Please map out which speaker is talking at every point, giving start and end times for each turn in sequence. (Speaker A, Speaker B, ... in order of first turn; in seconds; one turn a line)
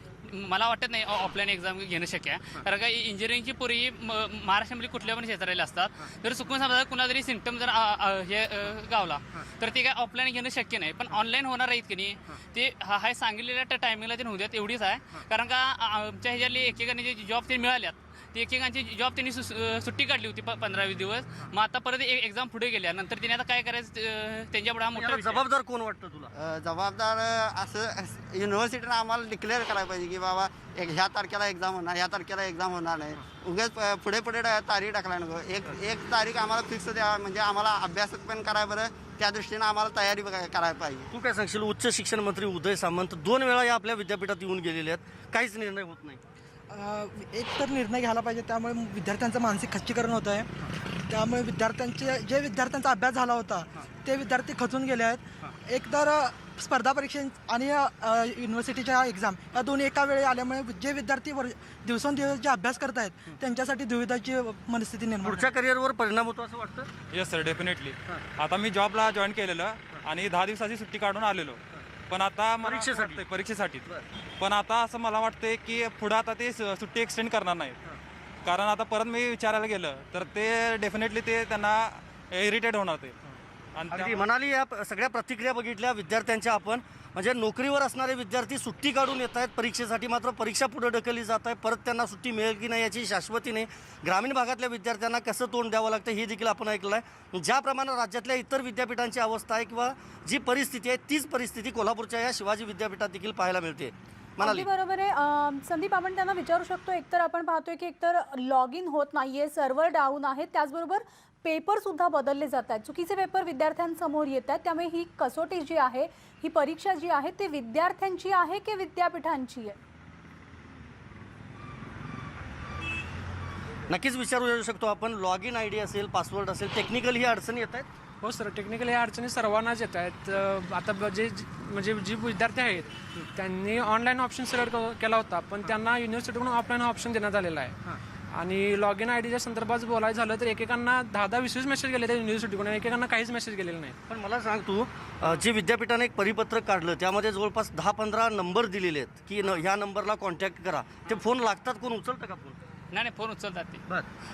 Speaker A: 0.3-25.4
Speaker B: 24.9-26.3
Speaker C: 26.3-41.1
Speaker B: 41.1-46.2
Speaker D: 46.7-65.5
Speaker B: 65.2-66.9
Speaker E: 67.1-73.9
Speaker B: 72.6-73.2
Speaker E: 74.4-77.8
Speaker E: 78.4-83.2
Speaker E: 83.7-84.2
Speaker B: 83.9-104.7
Speaker F: 104.4-119.8
Speaker B: 123.9-127.9
Speaker G: 128.2-137.8
Speaker G: 138.3-143.9
Speaker B: 144.1-152.6
Speaker A: 152.9-153.8